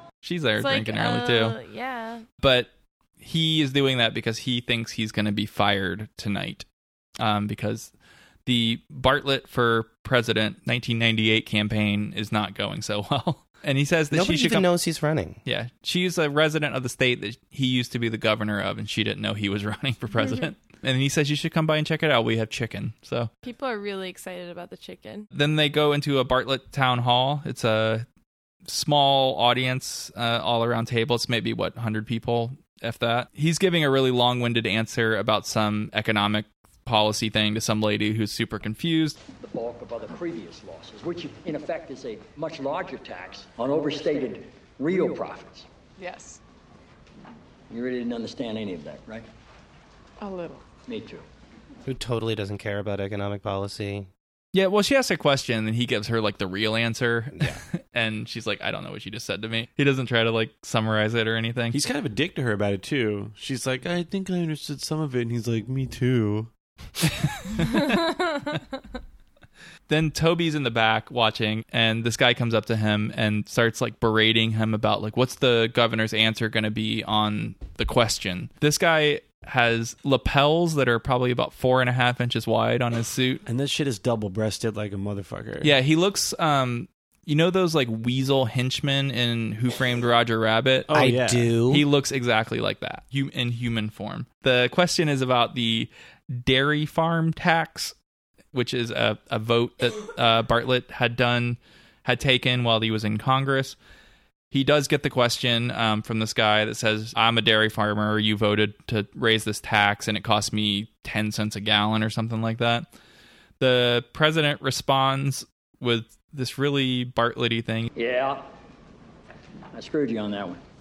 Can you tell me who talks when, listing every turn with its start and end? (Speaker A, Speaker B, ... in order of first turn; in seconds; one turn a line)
Speaker A: 0.2-1.6
Speaker B: 0.6-2.2
Speaker A: 2.4-2.7
Speaker A: 3.2-6.7
Speaker A: 7.2-7.9
Speaker A: 8.4-14.7
Speaker C: 14.1-15.4
Speaker A: 15.4-23.3
Speaker B: 20.1-20.5
Speaker B: 23.4-25.3
Speaker A: 25.3-28.0
Speaker A: 28.7-39.2
Speaker D: 39.4-45.7
Speaker D: 47.7-49.2
Speaker D: 50.9-51.2
Speaker C: 51.8-54.1
Speaker A: 54.5-61.8
Speaker E: 61.7-66.5
Speaker A: 67.4-68.0
Speaker B: 67.6-68.4
Speaker A: 69.9-83.4
Speaker E: 83.5-85.7
Speaker A: 85.6-90.9
Speaker E: 90.9-91.5
Speaker C: 90.9-91.8
Speaker A: 91.7-97.9
Speaker A: 98.5-103.8
Speaker A: 104.5-112.9
Speaker A: 113.6-117.9
Speaker D: 117.9-118.4
Speaker D: 119.7-120.6